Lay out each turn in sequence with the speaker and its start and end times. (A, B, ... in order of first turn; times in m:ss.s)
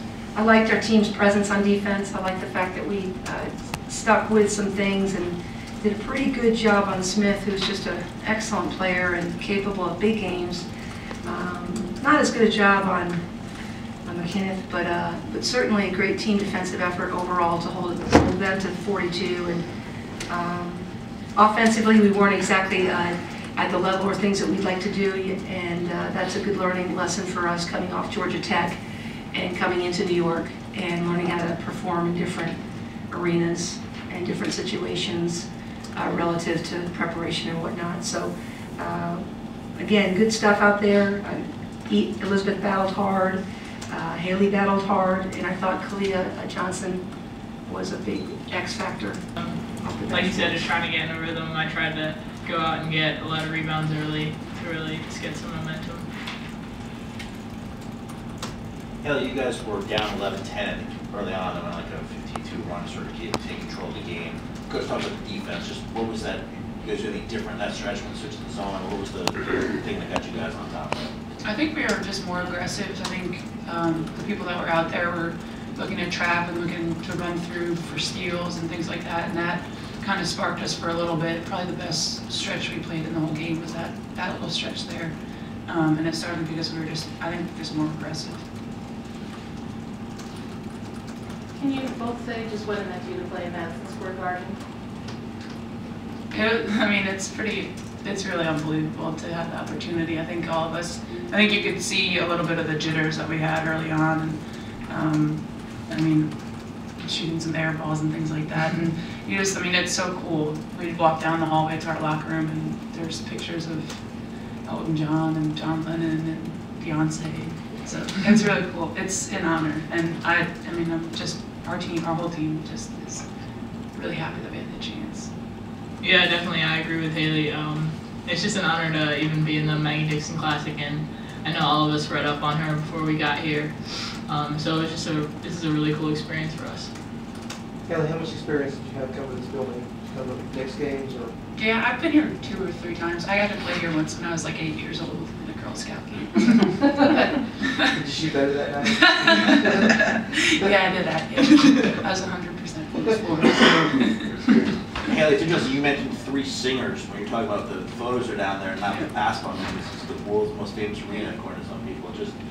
0:00.3-0:10.6 A
0:11.2-0:13.2 A
0:14.0-0:19.6 A
0:20.3-0:28.8 A
0:29.3-0:32.6 A
0:33.1-0:39.2 A
0:39.8-0:47.0 A
0:47.7-0:50.6 A
0:49.4-0:56.1 B
0:59.0-1:11.1 C
1:11.4-1:28.4 D
1:31.6-1:34.6 E
1:36.3-2:05.3 D
2:06.0-2:16.9 B
2:17.8-2:21.4 F
2:21.5-2:28.0 D
2:28.0-2:31.0 F
2:28.9-2:34.5 D
2:35.0-2:42.3 C